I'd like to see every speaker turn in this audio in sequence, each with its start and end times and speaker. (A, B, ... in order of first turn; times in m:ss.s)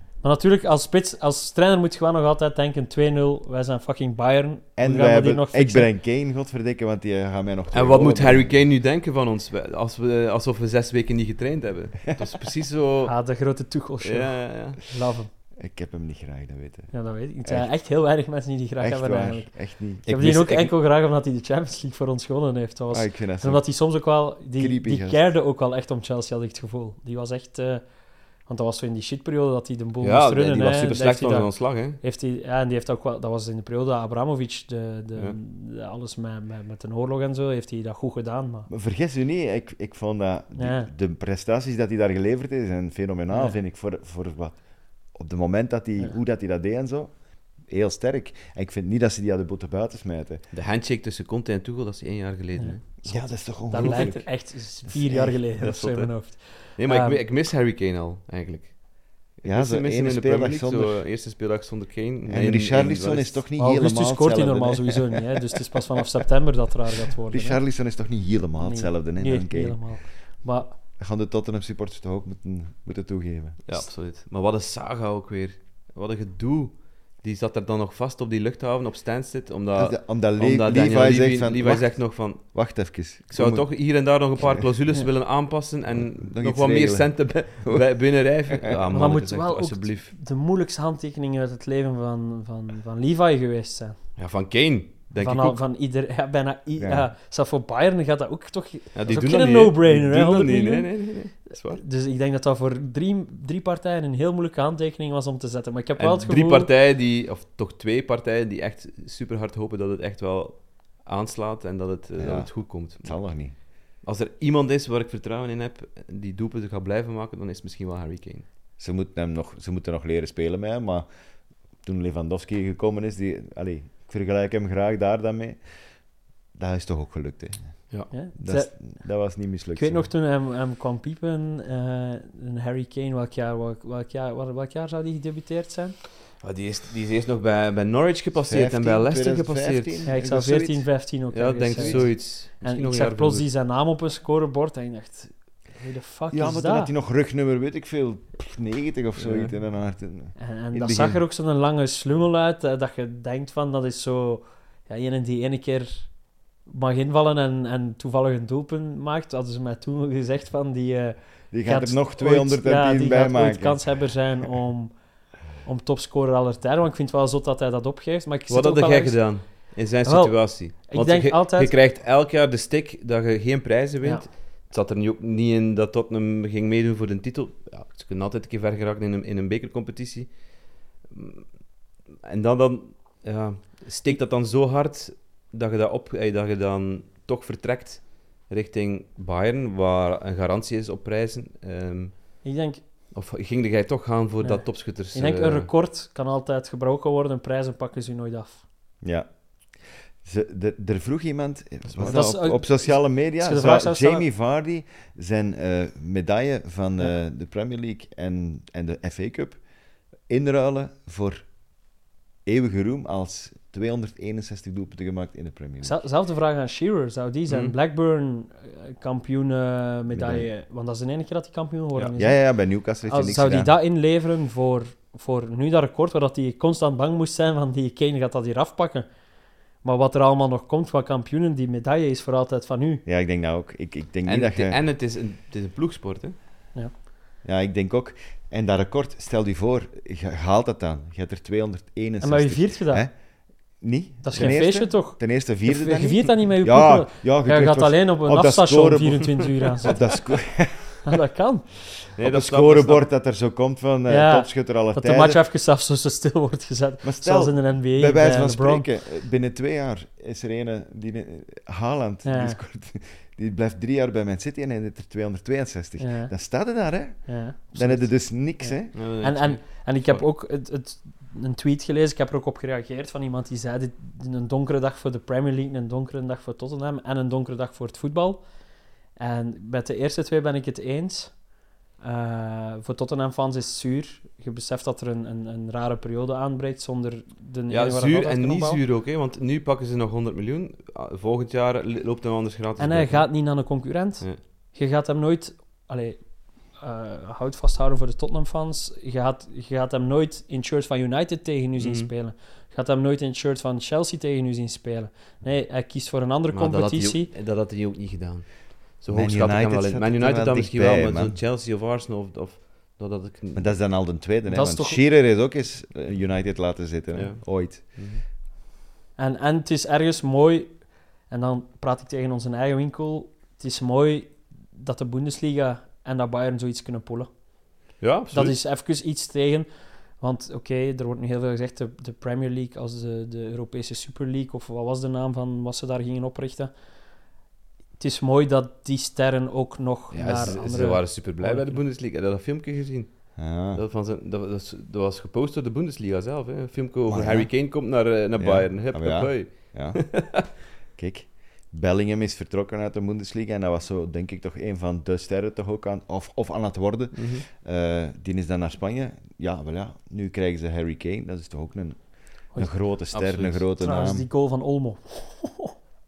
0:00.2-0:05.9 A
0:04.8-0:08.6 B
0:07.7-0:13.1 C
0:13.0-0:15.3 A
0:14.0-0:14.8 C
0:15.6-0:16.9 B
0:16.9-0:19.5 A
0:17.4-0:17.7 B
0:18.8-0:20.6 B
0:20.0-0:27.8 A
0:20.1-0:20.7 C
0:22.9-0:23.6 B
0:24.6-0:25.2 B
0:28.5-0:38.7 A
0:30.0-0:32.0 C
0:38.7-0:50.4 B
0:40.6-0:40.9 A
0:50.5-0:53.0 C
0:53.0-0:54.3 B
0:53.6-0:57.2 A
0:53.8-0:54.2 C
0:54.8-0:55.4 B
0:55.6-1:03.4 C
0:59.4-1:01.0 B
1:02.2-1:05.1 B
1:03.6-1:07.6 A
1:07.3-1:09.8 B
1:08.6-1:10.8 A
1:11.0-1:13.7 B
1:13.6-1:30.1 C
1:19.8-1:23.7 B
1:24.4-1:24.6 B
1:25.9-1:27.8 B
1:28.9-1:34.0 A
1:34.2-1:35.6 C
1:35.2-1:40.9 A
1:36.8-1:37.0 B
1:38.9-1:41.8 C
1:41.5-1:46.7 A
1:46.0-1:53.2 C
1:52.2-1:53.5 B
1:54.0-1:58.4 C
1:58.8-2:01.1 B
2:01.8-2:05.6 B
2:06.5-2:07.8 B
2:08.1-2:08.8 A
2:08.4-2:10.1 B
2:09.7-2:16.0 A
2:16.4-2:20.0 C
2:18.4-2:20.9 B
2:20.0-2:26.9 A
2:21.3-2:23.5 C
2:21.7-2:22.1 B
2:26.3-2:31.2 B
2:29.2-2:29.5 C
2:30.4-2:36.1 A
2:36.6-2:44.9 A
2:41.5-2:43.8 B
2:45.6-2:49.4 A
2:48.5-3:00.3 C
2:50.0-2:51.8 A
3:01.1-3:01.5 C
3:02.2-3:12.4 C
3:12.4-3:12.8 A
3:13.1-3:15.7 C
3:14.4-3:18.6 A
3:19.0-3:29.6 B
3:21.9-3:22.2 C
3:22.0-3:24.2 A
3:30.3-3:31.4 B
3:32.4-3:36.0 B
3:35.8-3:42.4 A
3:37.5-3:37.7 C
3:40.1-3:40.5 B
3:42.2-3:43.7 B
3:43.1-3:49.1 A
3:49.8-3:53.0 A
3:53.0-3:54.8 B
3:54.2-3:56.3 C
3:57.4-4:03.1 B
4:02.2-4:03.0 A
4:03.8-4:11.0 B
4:04.2-4:10.1 A
4:11.0-4:11.7 A
4:12.2-4:13.0 C
4:12.2-4:15.4 B
4:14.1-4:18.8 A
4:17.0-4:28.9 B
4:22.2-4:22.6 A
4:26.0-4:26.3 A
4:27.3-4:38.4 A
4:28.9-4:30.2 C
4:39.2-4:41.4 A
4:42.0-4:48.8 A
4:47.7-4:53.3 C
4:52.8-4:56.2 A
4:56.8-5:07.3 A
5:01.8-5:02.1 C
5:06.5-5:13.8 C
5:09.1-5:11.4 B
5:13.5-5:18.0 B
5:14.5-5:15.0 A
5:17.1-5:18.2 C
5:19.2-5:27.3 A
5:28.0-5:28.6 C
5:28.3-5:29.7 A
5:30.2-5:36.7 A
5:38.0-5:41.8 A
5:40.1-5:50.4 C
5:43.4-5:43.8 B
5:47.1-5:47.7 B
5:48.4-6:04.2 B
5:57.1-5:57.4 C
6:03.1-6:03.6 C
6:03.8-6:05.7 A